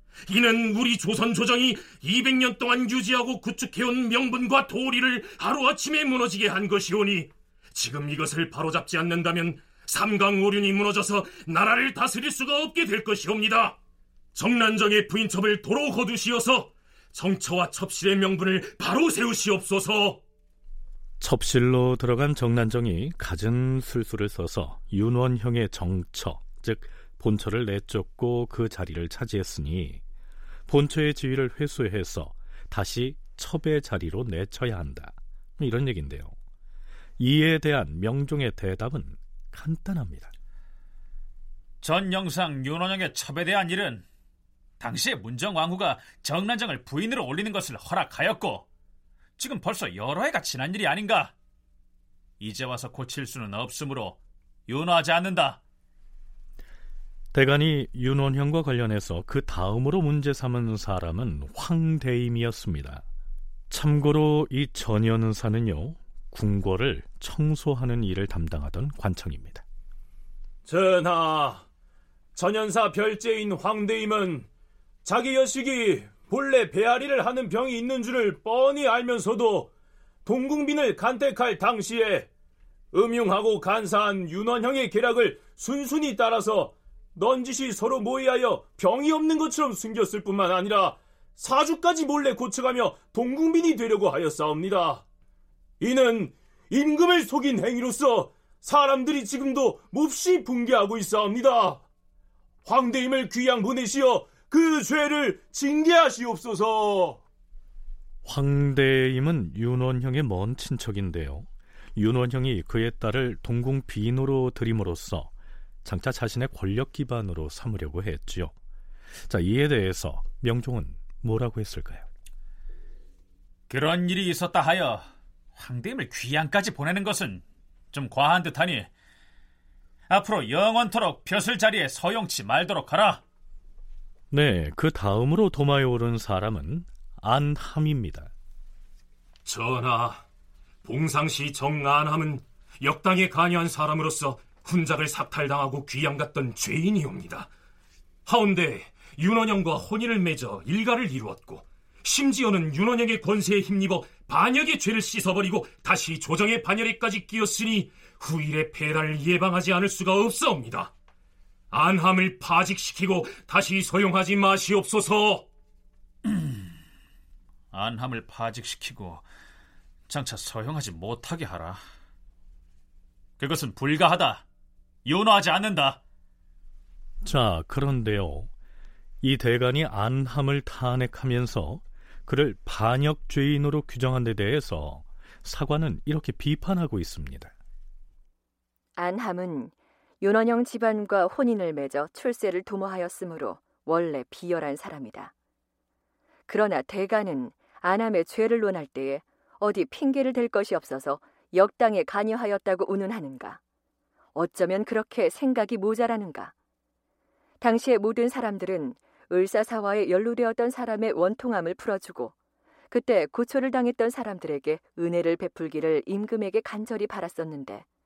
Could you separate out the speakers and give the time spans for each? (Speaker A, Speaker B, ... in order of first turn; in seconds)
Speaker A: 0.2-13.8, 14.3-20.2, 139.4-140.2, 140.8-147.5, 148.2-160.9, 161.7-165.4
Speaker B: 21.2-30.0, 30.7-36.3, 37.2-40.3, 57.3-63.0, 63.7-69.6, 108.2-115.3, 115.8-118.5, 119.2-122.0, 134.3-138.3, 177.2-178.5, 179.2-187.5
Speaker C: 41.8-44.0, 44.8-48.6, 49.4-51.3, 52.4-55.6, 123.7-128.9, 130.1-133.2, 166.2-166.5, 167.7-169.2, 170.1-171.8, 173.4-174.4, 175.0-176.0
Speaker D: 70.6-71.7, 72.3-74.5, 75.0-79.7, 80.2-82.3, 82.9-95.0, 95.8-101.8, 102.6-107.2
Speaker E: 189.0-195.3, 196.5-203.6, 204.3-206.5, 207.6-212.3, 212.9-217.8